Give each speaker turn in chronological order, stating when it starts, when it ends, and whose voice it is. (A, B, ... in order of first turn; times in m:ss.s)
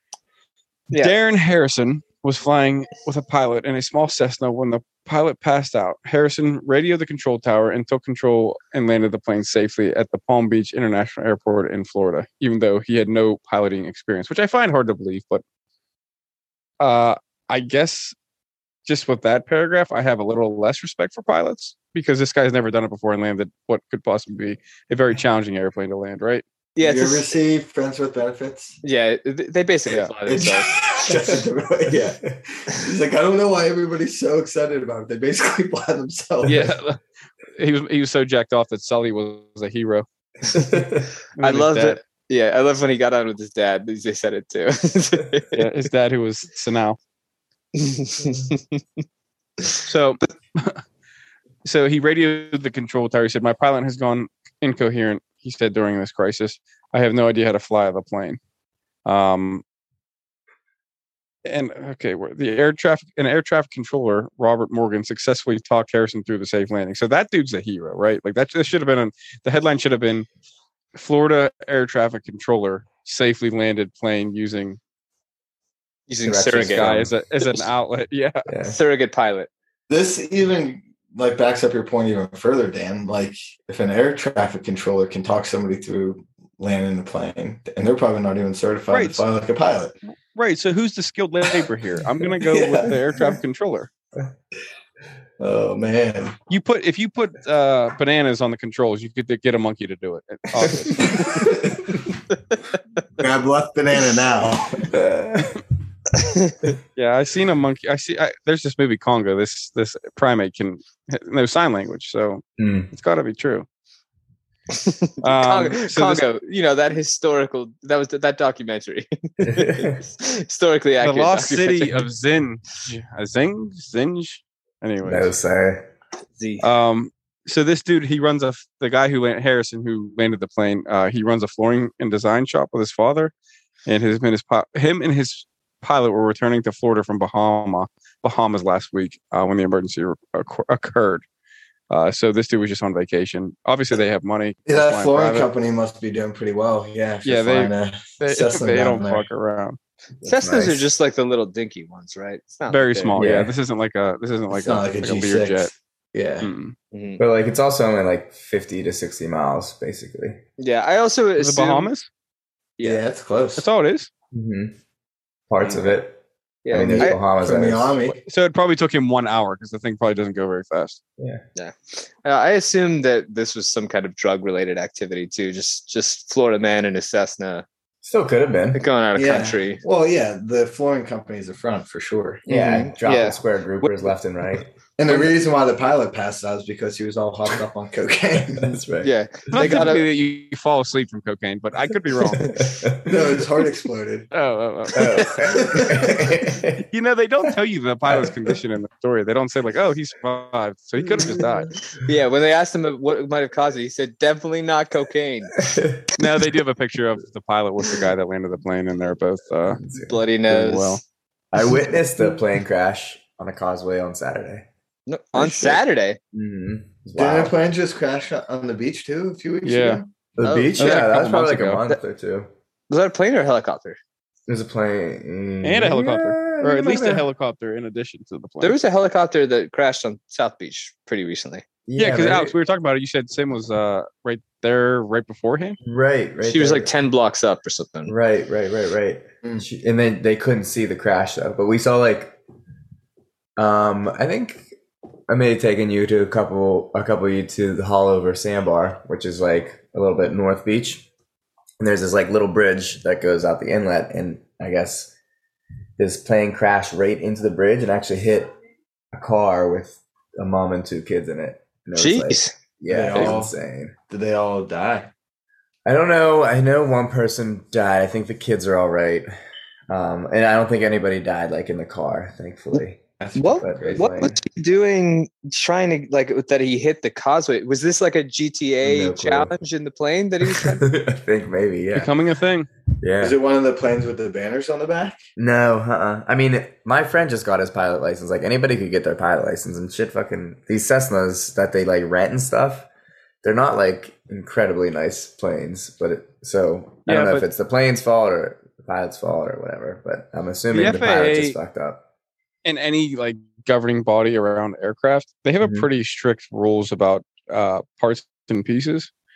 0:00.9-0:01.2 A
0:01.0-0:15.4 B
0:16.8-0:18.2 B
0:18.9-0:26.4 B
0:26.8-0:27.4 A
0:26.8-0:28.8 C
0:28.8-0:30.7 A
0:30.3-0:36.7 C
0:31.1-0:31.4 D
0:36.4-0:37.0 B
0:37.6-0:40.1 B
0:40.6-0:41.1 D
0:41.4-0:42.0 B
0:41.4-0:45.6 A
0:45.5-0:47.0 B
0:47.8-0:48.8 A
0:49.8-0:50.8 B
0:51.6-0:58.4 B
0:59.0-0:59.6 B
1:01.5-1:10.3 B
1:11.0-1:14.8 B
1:16.1-1:17.6 A
1:16.2-1:17.1 D
1:16.6-1:18.5 B
1:18.5-1:18.8 D
1:18.6-1:19.5 A
1:19.9-1:30.0 C
1:28.9-1:29.2 B
1:30.3-1:33.9 B
1:32.5-1:33.0 D
1:35.4-1:36.4 C
1:36.5-1:41.5 B
1:41.0-1:41.8 C
1:43.2-1:44.9 C
1:44.9-1:45.6 D
1:46.2-1:46.7 A
1:47.0-1:53.7 B
1:52.6-1:52.9 D
1:54.7-2:02.0 A
1:55.2-1:56.2 B
1:59.4-2:00.0 D
2:01.0-2:05.3 B
2:05.0-2:05.9 D
2:06.4-2:06.7 A
2:06.6-2:13.3 B
2:13.9-2:21.2 B
2:21.9-2:25.5 B
2:24.7-2:29.2 C
2:27.2-2:29.8 B
2:30.2-2:30.8 D
2:30.2-2:33.2 A
2:32.7-2:35.7 B
2:33.2-2:33.5 D
2:34.5-2:36.5 C
2:36.4-2:36.8 B
2:36.9-2:37.2 A
2:37.2-2:40.4 D
2:40.6-2:41.9 A
2:41.4-2:42.1 B
2:42.8-2:43.0 A
2:42.8-2:43.6 C
2:43.6-2:44.1 B
2:44.3-2:44.8 D
2:45.5-2:48.0 D
2:45.6-2:46.0 B
2:46.6-2:47.2 A
2:46.9-2:48.2 C
2:48.3-2:51.0 B
2:51.2-2:51.4 D
2:51.6-2:57.6 A
2:58.0-2:58.8 D
2:58.7-2:59.8 A
2:59.1-3:02.4 C
3:02.5-3:04.1 A
3:02.5-3:04.7 D
3:05.0-3:08.8 C
3:08.6-3:09.9 D
3:09.0-3:10.0 A
3:09.5-3:12.6 B
3:12.6-3:13.4 D
3:13.0-3:14.3 C
3:14.3-3:15.3 B
3:15.0-3:16.8 D
3:15.5-3:16.2 C
3:16.8-3:21.7 B
3:18.1-3:18.5 D
3:21.1-3:21.4 D
3:21.9-3:25.7 A
3:25.6-3:26.1 D
3:26.2-3:29.8 B
3:29.7-3:30.2 D
3:29.9-3:31.0 A
3:30.5-3:31.0 B
3:31.5-3:34.7 D
3:35.1-3:36.2 A
3:36.3-3:37.6 D
3:37.2-3:40.1 C
3:39.6-3:40.0 B
3:40.4-3:42.5 D
3:40.4-3:41.1 A
3:40.8-3:41.8 B
3:42.9-3:44.0 A
3:44.5-3:47.3 D
3:45.6-3:48.8 B
3:48.6-3:51.6 A
3:51.9-3:52.6 D
3:52.0-3:55.8 B
3:55.8-3:56.9 D
3:56.4-3:58.1 A
3:58.1-4:02.4 D
4:03.6-4:04.7 D
4:05.3-4:11.1 D
4:11.8-4:15.1 D
4:16.0-4:18.6 D
4:19.1-4:24.0 D
4:22.0-4:22.5 A
4:22.9-4:23.5 C
4:24.1-4:25.1 C
4:25.8-4:29.3 D
4:29.9-4:33.0 D
4:33.2-4:34.0 C
4:33.4-4:40.9 A
4:33.6-4:34.4 D
4:38.8-4:39.5 D
4:40.4-4:42.1 D
4:41.9-4:42.7 B
4:43.0-4:43.4 D
4:43.2-4:45.2 C
4:45.4-4:52.9 D
4:53.4-5:02.0 D
4:57.1-4:57.5 B
5:00.7-5:01.6 B
5:02.6-5:09.1 B
5:05.6-5:05.9 D